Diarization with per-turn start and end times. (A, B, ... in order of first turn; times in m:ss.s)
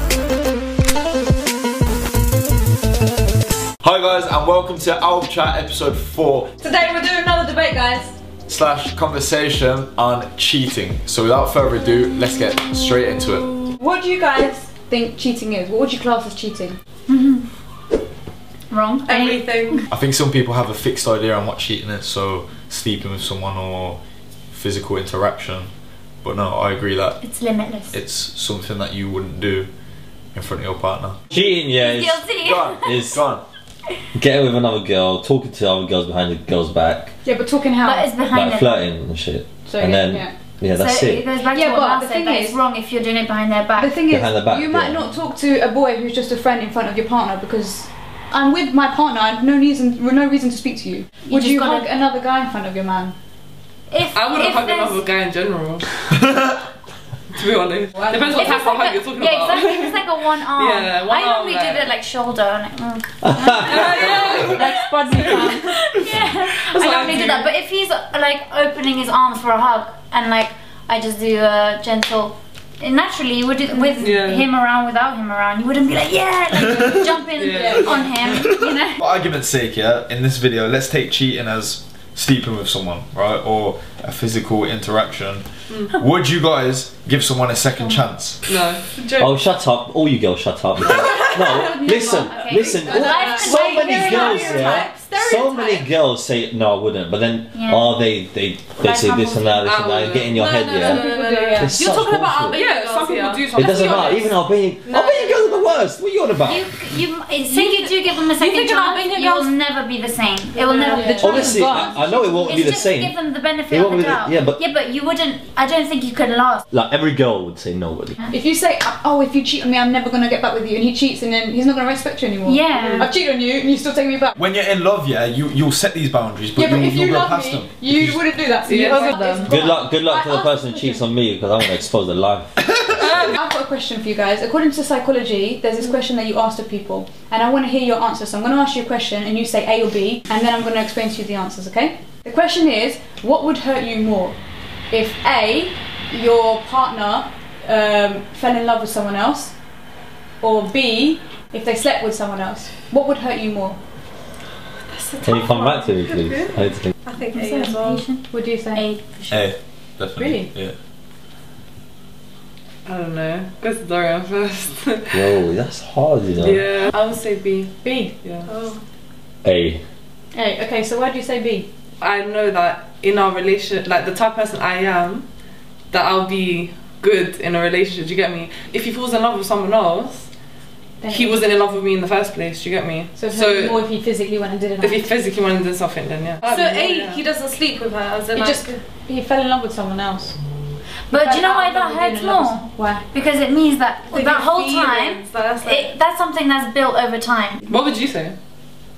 0:03.8-0:06.6 A
0:06.6-0:08.2 B
0:08.5-0:13.7 A
0:13.8-0:16.8 B
0:17.1-0:17.5 C
0:18.7-0:19.8 C
0:19.1-0:19.9 D
0:19.9-0:24.0 A
0:24.5-0:25.7 A
0:26.2-0:27.2 A
0:27.2-0:28.0 C
0:27.9-0:29.7 A
0:30.3-0:31.2 A
0:31.3-0:32.2 E
0:31.8-0:33.3 C
0:32.4-0:33.4 A
0:32.8-0:33.2 E
0:34.2-0:37.2 E
0:37.2-0:38.1 B
0:37.8-0:38.9 C
0:38.3-0:41.2 E
0:39.7-0:40.3 B
0:40.7-0:44.0 C
0:41.5-0:42.6 B
0:43.8-0:53.2 B
0:44.1-0:45.1 E
0:51.3-0:51.9 C
0:53.9-0:55.0 C
0:54.1-0:56.0 F
0:57.3-1:01.9 F
0:58.0-0:58.6 B
0:58.3-1:19.0 C
1:03.3-1:03.9 E
1:03.6-1:05.6 F
1:04.4-1:05.6 B
1:06.7-1:07.4 F
1:14.0-1:14.5 F
1:16.6-1:17.0 A
1:17.4-1:18.1 F
1:17.5-1:17.9 B
1:18.3-1:28.4 A
1:25.7-1:25.9 F
1:28.4-1:28.8 F
1:29.0-1:29.3 D
1:29.2-1:42.6 E
1:31.3-1:35.9 D
1:31.5-1:34.4 C
1:32.9-1:33.1 B
1:37.5-1:38.0 C
1:38.8-1:39.8 C
1:39.6-1:40.5 F
1:40.2-1:44.3 D
1:40.7-1:41.8 B
1:42.5-1:44.3 F
1:43.6-1:46.7 E
1:44.8-1:45.6 D
1:46.4-1:56.6 C
1:47.5-1:49.5 D
1:50.6-1:52.3 D
1:50.9-1:51.9 B
1:51.2-1:53.2 E
1:53.7-1:54.6 E
1:56.7-1:58.2 E
1:58.3-2:04.4 B
2:02.4-2:03.1 C
2:04.4-2:08.3 A
2:06.6-2:11.0 B
2:08.7-2:09.2 F
2:09.4-2:12.6 E
2:12.6-2:13.3 A
2:13.0-2:24.4 B
2:24.9-2:29.5 B
2:30.4-2:33.8 B
2:34.9-2:35.9 D
2:35.2-2:36.9 E
2:36.0-2:36.5 F
2:37.0-2:38.0 D
2:37.3-2:39.5 C
2:38.3-2:38.8 B
2:39.3-2:40.7 A
2:40.2-2:40.5 B
2:42.8-2:45.4 F
2:45.1-2:46.7 E
2:46.4-2:48.5 F
2:48.5-2:48.8 D
2:49.4-2:49.8 E
2:50.3-2:51.7 B
2:52.0-2:55.3 F
2:55.9-3:00.3 F
3:01.0-3:01.4 B
3:01.1-3:03.8 F
3:03.2-3:05.0 B
3:04.8-3:07.2 F
3:06.4-3:08.8 D
3:08.3-3:10.4 B
3:11.1-3:17.6 C
3:11.1-3:13.0 B
3:14.1-3:15.9 D
3:17.7-3:18.4 F